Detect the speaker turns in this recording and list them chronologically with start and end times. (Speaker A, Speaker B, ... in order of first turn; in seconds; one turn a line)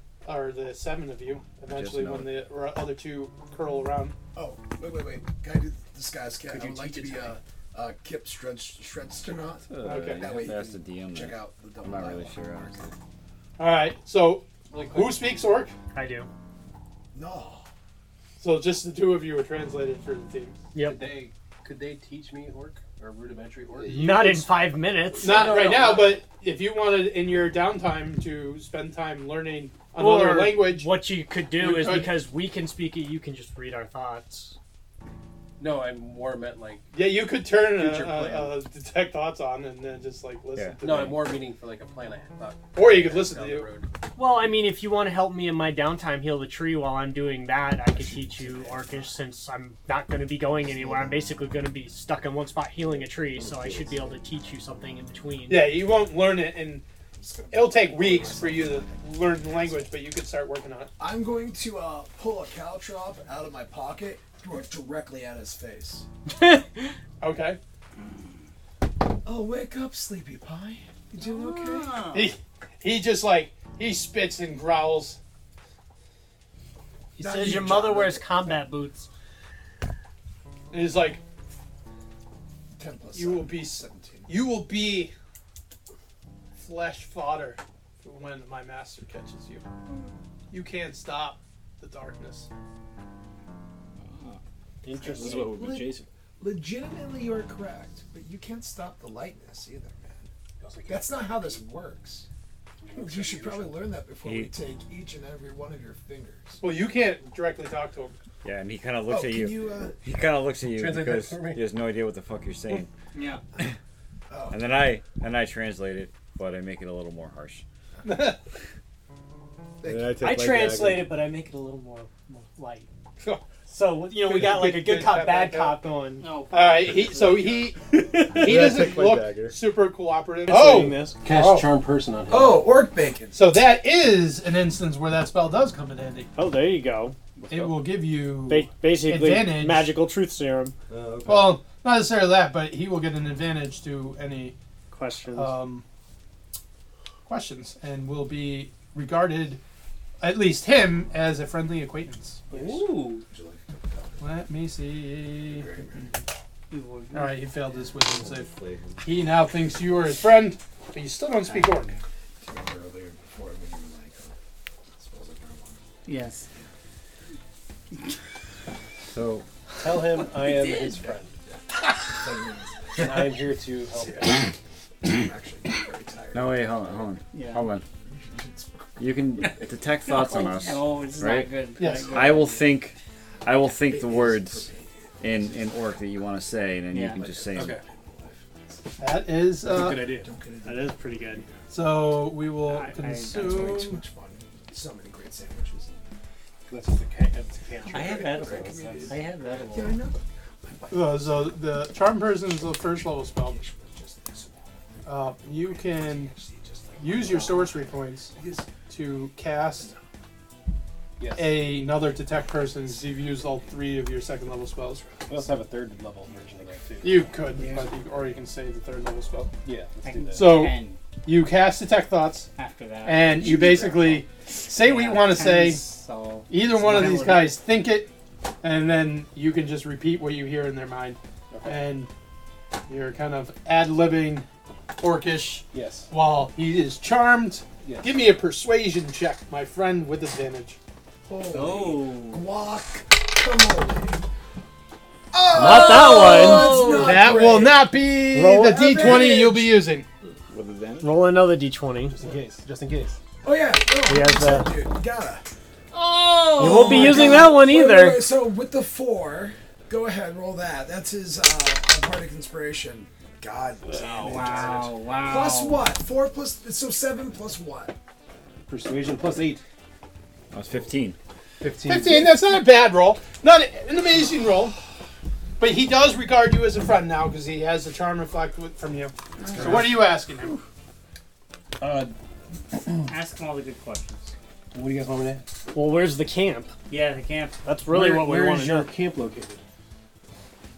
Speaker A: 0.2-4.2
Speaker B: 1.7-2.3
Speaker C: 4.3-12.9
Speaker D: 6.5-7.4
Speaker B: 9.7-12.9
Speaker A: 9.8-10.6
Speaker A: 13.6-15.7
Speaker D: 14.7-15.3
Speaker E: 15.9-16.3
Speaker C: 17.1-17.7
Speaker A: 18.4-20.6
Speaker E: 20.7-21.0
Speaker D: 20.8-24.2
Speaker A: 23.9-24.5
Speaker E: 23.9-25.5
Speaker D: 25.2-26.2
Speaker A: 25.2-30.9
Speaker E: 29.9-34.6
Speaker A: 31.6-32.1
Speaker D: 35.6-36.9
Speaker A: 36.9-41.3
Speaker D: 37.7-38.6
Speaker B: 40.6-41.1
Speaker D: 40.8-43.9
Speaker A: 42.8-43.7
Speaker E: 44.2-55.7
Speaker C: 47.9-49.1
Speaker C: 50.6-51.2
Speaker C: 53.3-54.2
Speaker A: 55.5-56.9
Speaker C: 57.2-59.9
Speaker A: 57.5-60.9
Speaker C: 61.0-66.1
Speaker E: 66.4-66.7
Speaker A: 67.2-67.6
Speaker C: 69.2-72.0
Speaker F: 71.2-72.3
Speaker A: 72.1-75.2
Speaker C: 77.2-78.6
Speaker E: 77.2-79.1
Speaker A: 80.7-81.2
Speaker C: 82.8-84.4
Speaker A: 83.1-85.1
Speaker A: 86.6-89.7
Speaker A: 90.5-92.5
Speaker G: 94.0-94.4
Speaker E: 94.8-95.6
Speaker C: 95.0-100.3
Speaker G: 95.1-96.1
Speaker D: 100.6-101.7
Speaker C: 100.9-102.3
Speaker D: 102.8-103.8
Speaker C: 102.9-106.6
Speaker B: 104.2-104.5
Speaker A: 106.6-108.2
Speaker B: 108.4-112.9
Speaker C: 109.0-110.0
Speaker D: 110.7-111.6
Speaker F: 113.1-113.4
Speaker C: 114.3-114.8
Speaker B: 114.5-117.6
Speaker A: 118.0-118.4
Speaker C: 119.8-120.2
Speaker H: 119.8-121.1
Speaker E: 120.2-122.9
Speaker E: 123.7-126.2
Speaker A: 124.2-125.8
Speaker F: 126.2-127.7
Speaker A: 126.5-131.7
Speaker H: 128.3-129.6
Speaker E: 130.5-131.2
Speaker D: 131.2-132.8
Speaker C: 132.3-133.5
Speaker A: 133.3-136.3
Speaker E: 136.3-137.2
Speaker A: 137.5-139.9
Speaker E: 138.5-140.8
Speaker H: 140.9-141.6
Speaker A: 141.2-144.6
Speaker E: 144.9-145.6
Speaker A: 145.3-145.8
Speaker A: 147.3-149.6
Speaker A: 150.2-152.5
Speaker E: 152.6-153.2
Speaker C: 152.6-154.3
Speaker A: 154.2-155.8
Speaker C: 155.4-156.2
Speaker F: 156.7-157.6
Speaker A: 157.1-162.0
Speaker H: 158.0-159.2
Speaker C: 161.5-161.9
Speaker C: 162.4-164.4
Speaker C: 164.9-165.8
Speaker F: 166.1-166.5
Speaker B: 169.1-169.5
Speaker D: 169.8-171.3
Speaker C: 171.1-173.3
Speaker D: 173.0-174.5
Speaker C: 173.9-177.2
Speaker B: 176.3-177.8
Speaker F: 177.3-177.7
Speaker C: 178.1-179.0
Speaker B: 179.0-187.8
Speaker F: 179.4-182.6
Speaker A: 181.8-182.2
Speaker C: 183.7-186.0
Speaker F: 186.9-187.2
Speaker C: 187.2-188.8
Speaker D: 187.5-187.8
Speaker A: 189.0-190.1
Speaker D: 189.7-190.3
Speaker C: 189.9-191.7
Speaker E: 190.6-191.4
Speaker A: 191.7-194.0
Speaker F: 192.6-193.7
Speaker C: 193.2-195.9
Speaker D: 196.7-199.1
Speaker F: 197.9-200.1
Speaker C: 197.9-208.9
Speaker A: 200.9-203.6
Speaker A: 205.1-206.3
Speaker A: 207.0-209.9
Speaker C: 209.7-210.1
Speaker D: 211.2-211.6
Speaker A: 211.3-215.0
Speaker C: 212.4-213.9
Speaker C: 214.8-215.6
Speaker D: 215.3-217.4
Speaker C: 216.3-216.6
Speaker A: 217.0-219.5
Speaker F: 217.6-217.9
Speaker D: 219.7-220.6
Speaker F: 220.0-221.0
Speaker A: 220.3-222.5
Speaker F: 222.6-223.6
Speaker A: 223.1-225.9
Speaker C: 223.5-224.2
Speaker F: 224.7-227.6
Speaker A: 226.5-228.1
Speaker A: 228.6-232.1
Speaker D: 231.5-231.8
Speaker A: 232.9-234.5
Speaker A: 235.0-240.8
Speaker D: 235.7-236.1
Speaker D: 237.8-238.1
Speaker C: 241.3-244.2
Speaker F: 241.5-242.5
Speaker C: 245.3-249.8
Speaker E: 245.5-246.9
Speaker F: 245.6-247.5
Speaker A: 247.0-250.1
Speaker E: 248.3-248.8
Speaker G: 250.5-251.1
Speaker E: 251.0-252.2
Speaker D: 252.1-253.2
Speaker C: 253.4-255.4
Speaker E: 254.1-254.7
Speaker F: 255.9-257.6
Speaker C: 256.6-267.9
Speaker E: 256.6-258.2
Speaker F: 264.2-265.9
Speaker D: 264.4-264.9
Speaker D: 268.7-269.6
Speaker B: 270.5-271.2
Speaker D: 271.6-272.3
Speaker A: 271.9-274.8
Speaker A: 275.6-280.6
Speaker D: 279.6-279.8
Speaker D: 281.8-282.1
Speaker F: 283.0-284.3
Speaker D: 284.7-285.5
Speaker E: 285.7-286.7
Speaker F: 286.9-287.6
Speaker E: 287.6-288.9
Speaker D: 287.9-289.6